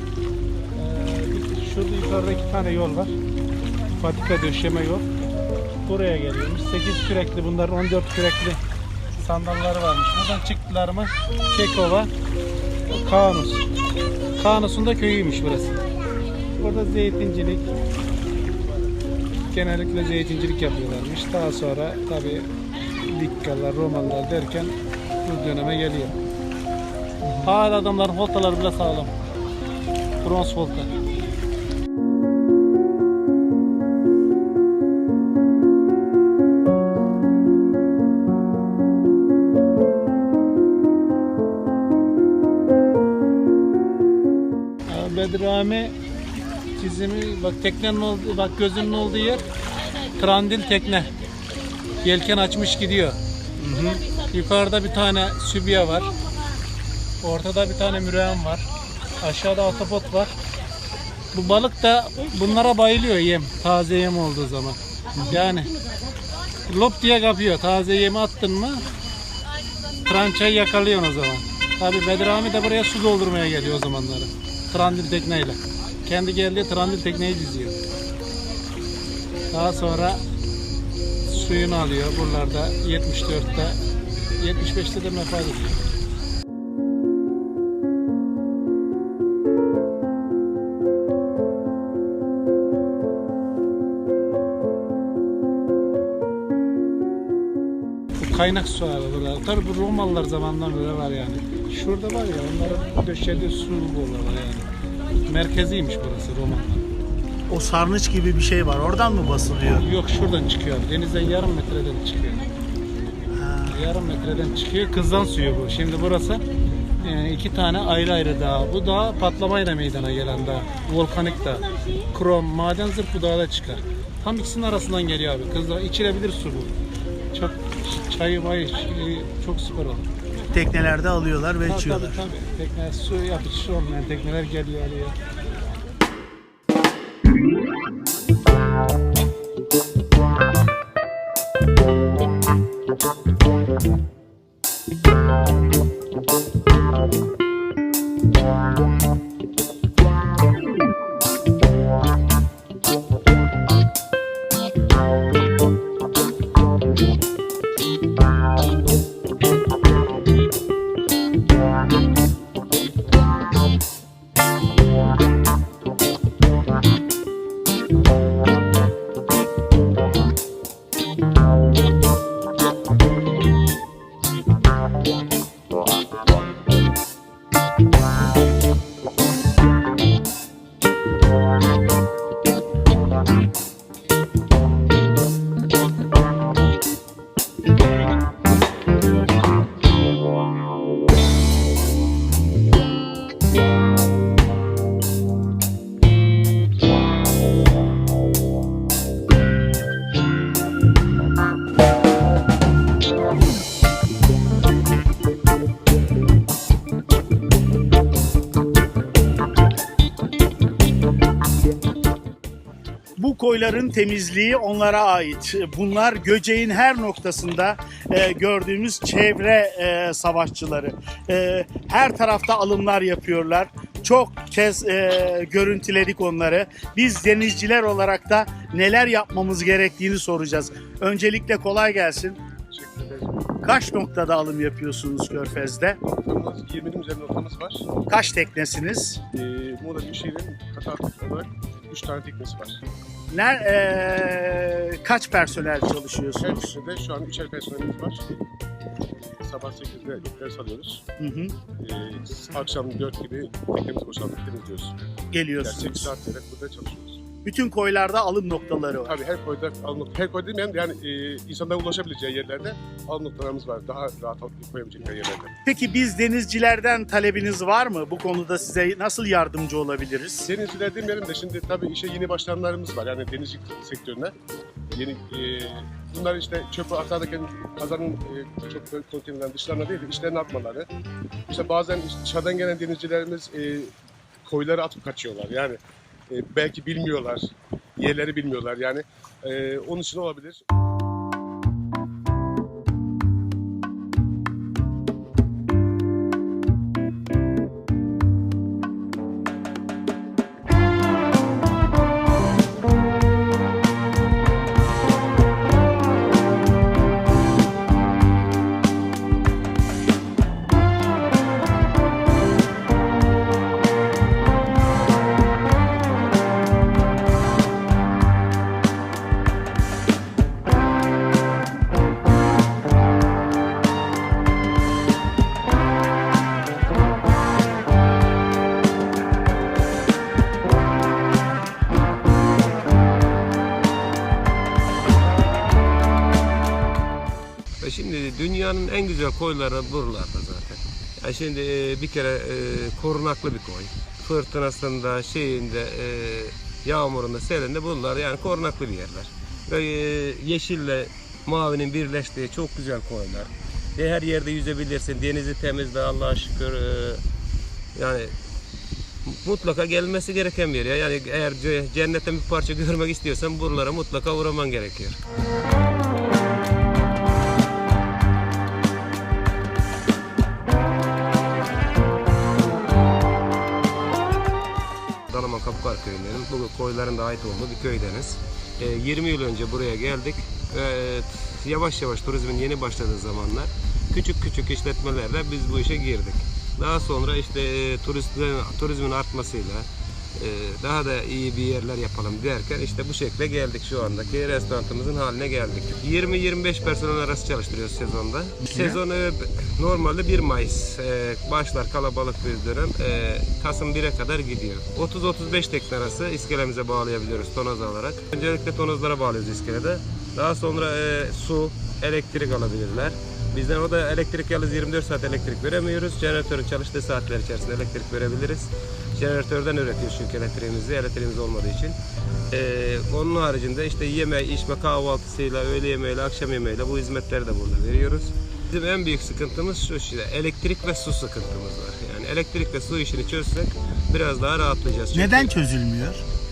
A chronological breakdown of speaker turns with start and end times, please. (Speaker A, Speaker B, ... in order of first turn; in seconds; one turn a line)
Speaker A: 0.7-3.2
Speaker A: 4.0-5.1
Speaker A: 5.8-8.6
Speaker A: 9.2-12.1
Speaker A: 12.9-13.7
Speaker A: 14.4-15.8
Speaker A: 16.5-17.8
Speaker A: 19.5-22.5
Speaker A: 23.0-26.2
Speaker A: 27.3-29.2
Speaker A: 30.2-30.9
Speaker A: 44.9-46.0
Speaker A: 46.7-49.5
Speaker A: 50.1-51.1
Speaker A: 52.0-53.2
Speaker B: 53.6-54.0
Speaker A: 54.1-56.1
Speaker A: 57.2-58.6
Speaker A: 59.2-60.3
Speaker A: 61.3-65.7
Speaker A: 66.7-68.8
Speaker A: 70.0-77.8
Speaker A: 79.5-80.2
Speaker A: 81.2-83.8
Speaker A: 84.4-85.8
Speaker A: 98.2-104.7
Speaker A: 105.3-106.8
Speaker B: 107.5-109.9
Speaker A: 109.7-112.5
Speaker B: 113.3-114.0
Speaker A: 113.7-116.4
Speaker A: 117.0-126.7
Speaker A: 127.3-130.1
Speaker B: 130.5-132.2
Speaker A: 131.6-135.2
Speaker B: 213.2-232.4
Speaker C: 232.7-233.4
Speaker B: 233.6-236.0
Speaker C: 236.1-237.9
Speaker B: 238.1-239.2
Speaker C: 239.3-242.8
Speaker B: 243.3-246.8
Speaker C: 246.4-248.2
Speaker C: 249.1-251.0
Speaker B: 251.2-251.6
Speaker C: 251.7-254.9
Speaker B: 255.3-256.1
Speaker C: 255.6-257.2
Speaker B: 257.4-259.1
Speaker C: 259.1-265.5
Speaker B: 265.6-270.5
Speaker C: 270.5-274.3
Speaker C: 274.9-280.9
Speaker C: 281.5-283.9
Speaker C: 284.5-285.8
Speaker C: 286.3-290.6
Speaker D: 337.8-357.2
Speaker D: 357.9-358.3
Speaker D: 359.3-365.2
Speaker D: 375.3-422.0
Speaker B: 398.6-399.0
Speaker D: 422.5-435.5
Speaker B: 435.1-436.2